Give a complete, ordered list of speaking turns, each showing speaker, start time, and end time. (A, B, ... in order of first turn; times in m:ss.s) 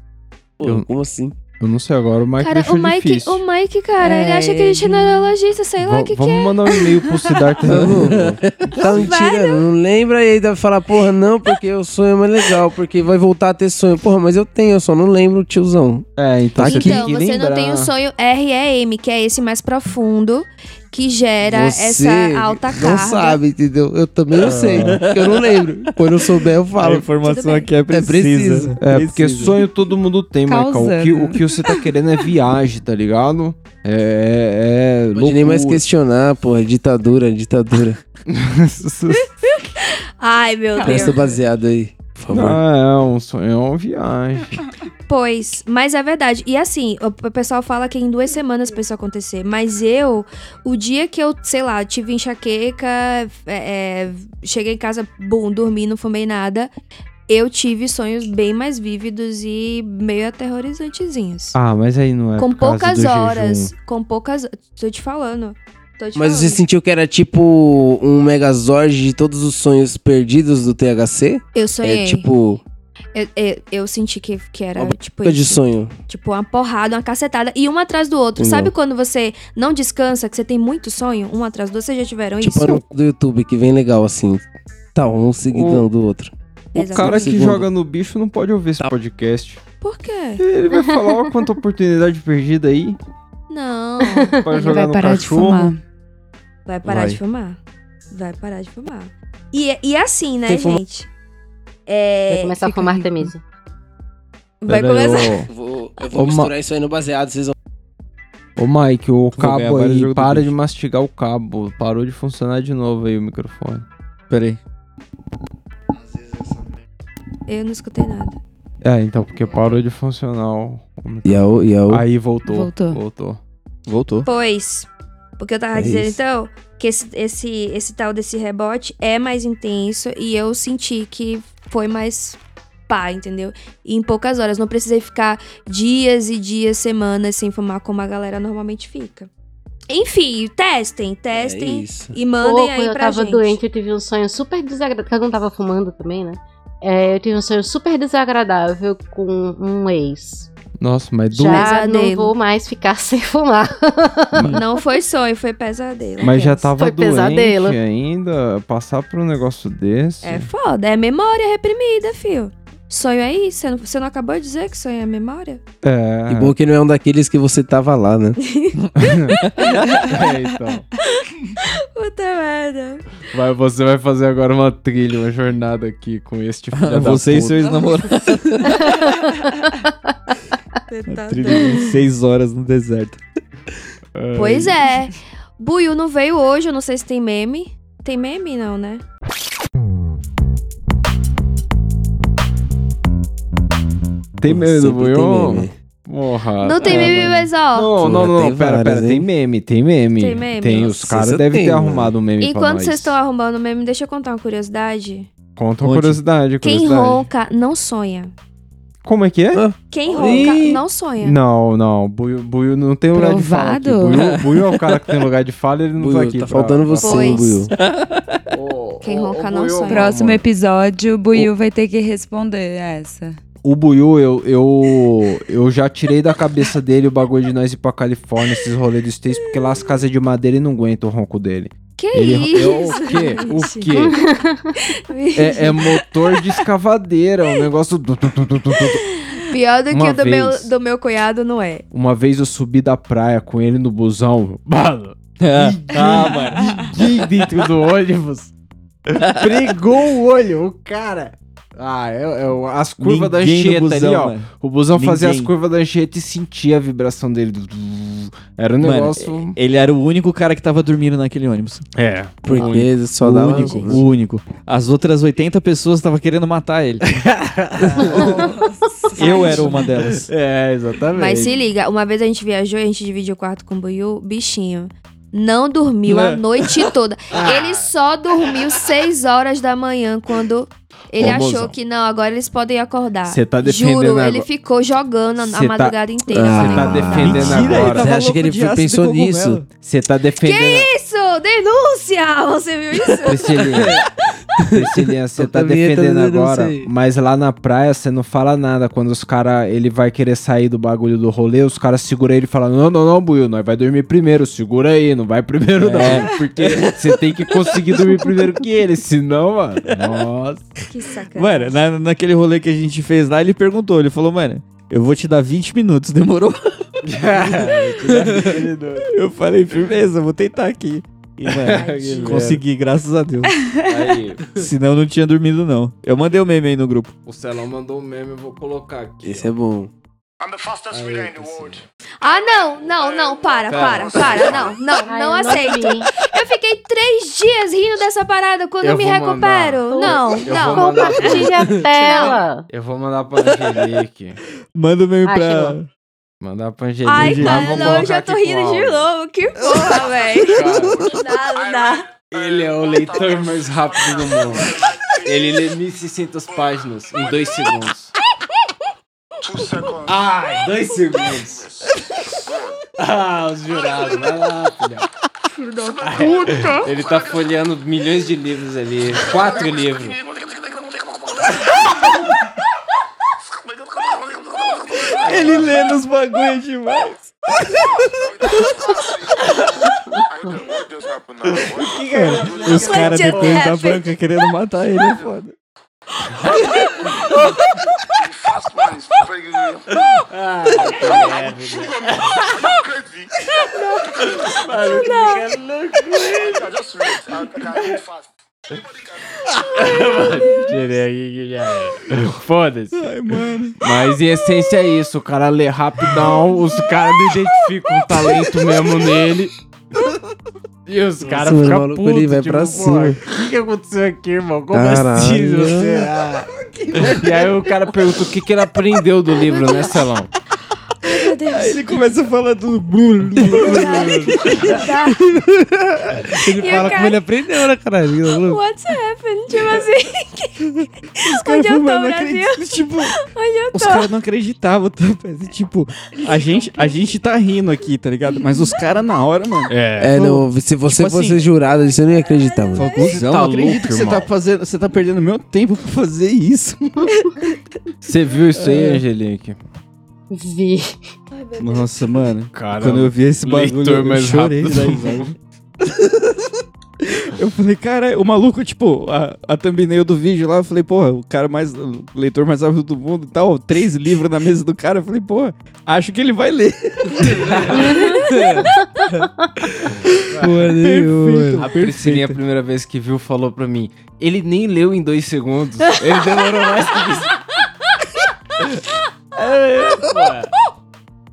0:00.6-0:01.3 A
0:01.6-0:03.4 B
0:02.4-0:06.9 C
0:04.0-0:05.2 D
0:05.8-0:09.0 B
0:07.6-0:17.1 A
0:08.8-0:09.6 C
0:16.2-0:17.9 B
0:16.6-0:23.4 C
0:21.4-0:27.0 A
0:24.4-0:29.6 E
0:24.4-0:25.0 B
0:27.2-0:27.7 C
0:27.9-0:28.7 A
0:28.8-0:35.8 B
0:30.4-0:31.8 D
0:35.1-0:38.0 A
0:38.3-0:39.3 B
0:39.8-0:41.2 C
0:40.8-0:41.2 D
0:40.8-0:42.6 A
0:42.3-0:44.6 B
0:45.1-0:56.7 C
0:57.3-1:01.6 C
1:01.5-1:03.7 B
1:02.4-1:06.6 C
1:06.2-1:12.6 A
1:11.5-1:12.3 C
1:13.1-1:22.8 C
1:14.8-1:15.9 A
1:18.4-1:18.7 A
1:22.4-1:27.7 A
1:25.5-1:25.9 B
1:26.7-1:27.6 C
1:26.9-1:29.6 B
1:29.8-1:30.4 C
1:30.4-1:33.0 B
1:30.7-1:31.1 F
1:33.5-1:34.8 C
1:34.4-1:35.7 B
1:34.6-1:35.8 D
1:36.6-1:37.6 C
1:36.8-1:37.2 E
1:38.1-1:41.1 C
1:40.5-1:40.8 A
1:41.9-1:43.0 C
1:42.3-1:43.4 F
1:44.6-1:45.4 C
1:44.7-1:45.5 B
1:45.2-1:47.5 A
1:46.1-1:46.5 B
1:48.6-1:53.8 B
1:49.3-1:50.5 E
1:54.3-1:54.6 E
1:57.5-1:58.4 C
1:58.8-2:03.4 B
2:01.2-2:02.0 A
2:02.4-2:03.0 D
2:03.9-2:04.3 E
2:04.2-2:19.3 C
2:05.7-2:06.2 A
2:19.9-2:23.6 C
2:21.3-2:22.1 A
2:22.4-2:30.5 F
2:30.8-2:31.7 B
2:31.3-2:34.6 F
2:31.4-2:32.3 C
2:34.5-2:36.7 C
2:36.2-2:40.5 B
2:36.8-2:37.8 F
2:40.2-2:45.6 C
2:45.8-2:46.5 B
2:46.3-2:48.4 A
2:48.4-2:48.8 C
2:48.8-2:50.1 E
2:49.0-2:49.4 B
2:49.9-2:50.9 B
2:51.2-2:53.2 C
2:53.3-2:58.2 B
2:56.7-2:59.3 E
3:00.9-3:01.9 C
3:01.1-3:03.2 E
3:04.1-3:04.8 B
3:04.3-3:09.0 C
3:14.4-3:23.2 B
3:14.4-3:15.7 A
3:16.6-3:17.9 C
3:16.8-3:17.2 A
3:18.0-3:19.3 A
3:20.2-3:21.2 C
3:20.8-3:22.1 A
3:22.4-3:25.3 C
3:25.6-3:27.3 B
3:25.8-3:26.2 E
3:26.6-3:28.3 C
3:29.0-3:37.4 B
3:29.5-3:30.8 A
3:29.9-3:31.4 C
3:33.1-3:34.4 D
3:34.1-3:35.1 E
3:36.0-3:37.7 A
3:37.0-3:37.7 C
3:37.7-3:38.4 E
3:38.5-3:40.4 B
3:39.0-3:40.2 C
3:39.9-3:43.4 D
3:43.6-3:54.2 B
3:52.0-3:54.0 C
3:53.9-3:54.7 F
3:54.8-3:56.0 C
3:55.4-3:59.0 B
3:59.1-4:01.8 C
3:59.9-4:00.7 B
4:01.9-4:08.5 B
4:05.4-4:07.5 E
4:09.1-4:19.6 B
4:09.2-4:09.6 E
4:13.0-4:15.5 E
4:18.8-4:21.8 E
4:22.0-4:24.0 B
4:22.4-4:24.0 A
4:22.5-4:27.0 E
4:27.2-4:28.6 B
4:27.9-4:28.5 E
4:29.1-4:30.3 E
4:29.2-4:29.7 C
4:29.2-4:29.8 D
4:29.2-4:31.6 B
4:31.1-4:47.7 C
4:36.1-4:36.4 E
4:37.4-4:37.9 B
4:41.2-4:41.7 A
4:43.2-4:44.5 B
4:45.4-4:48.1 B
4:46.3-4:49.6 A
4:47.1-4:49.7 E
4:49.8-4:50.9 B
4:50.4-4:53.6 C
4:53.2-4:54.0 B
4:54.6-4:56.9 A
4:54.6-5:10.7 B
5:05.8-5:08.5 E
5:10.9-5:11.8 C
5:11.3-5:17.0 E
5:17.0-5:19.1 B
5:18.1-5:18.5 E
5:19.1-5:23.6 E
5:21.5-5:22.6 B
5:21.7-5:22.4 C
5:23.9-5:24.6 B
5:24.5-5:27.1 E
5:27.2-5:29.5 B
5:29.2-5:29.9 A
5:30.9-5:31.8 B
5:32.2-5:42.4 C
5:33.7-5:34.8 B
5:34.9-5:36.1 F
5:38.8-5:44.4 B
5:39.9-5:42.7 F
5:44.7-5:45.9 E
5:45.2-5:45.8 F
5:46.4-5:49.1 B
5:47.0-5:52.1 C
5:47.2-5:48.1 E
5:50.3-5:51.2 B
5:52.3-5:58.1 B
5:59.8-6:01.9 B
6:03.0-6:05.0 B
6:05.6-6:06.7 C
6:06.0-6:10.2 B
6:06.2-6:06.8 E
6:14.8-6:20.2 E
6:15.0-6:15.7 B
6:21.5-6:25.6 E
6:21.6-6:23.7 B
6:22.7-6:24.1 C
6:26.5-6:27.4 C
6:26.6-6:27.1 E
6:28.8-6:29.2 E
6:30.3-6:32.5 B
6:33.7-6:35.5 C
6:34.3-6:36.9 B
6:37.4-6:38.0 B
6:39.5-6:49.5 B
6:43.0-6:43.8 E
6:50.8-7:00.3 B
6:51.3-6:53.2 A
6:54.7-6:56.1 A
6:59.4-7:00.0 C
7:01.0-7:01.8 C
7:01.5-7:04.6 E
7:03.4-7:04.8 B
7:03.5-7:05.2 C
7:05.3-7:08.6 A
7:06.6-7:07.2 C
7:08.5-7:10.6 C
7:11.2-7:14.1 C
7:11.2-7:13.1 E
7:13.7-7:21.4 E
7:19.7-7:20.3 B
7:20.0-7:22.9 A
7:22.7-7:23.1 C
7:22.7-7:27.1 E
7:23.0-7:24.3 B
7:28.0-7:29.6 B
7:28.5-7:29.0 E
7:30.3-7:31.0 F
7:31.3-7:31.6 C
7:31.6-7:31.8 B
7:31.6-7:35.2 E
7:32.5-7:35.4 B
7:35.8-7:48.6 E
7:47.3-7:48.3 B
7:48.2-7:48.7 A
7:49.8-7:50.6 B
7:50.3-7:51.7 A
7:50.3-7:52.4 E
7:51.6-7:57.3 B
7:59.4-8:00.3 E
8:00.0-8:00.5 B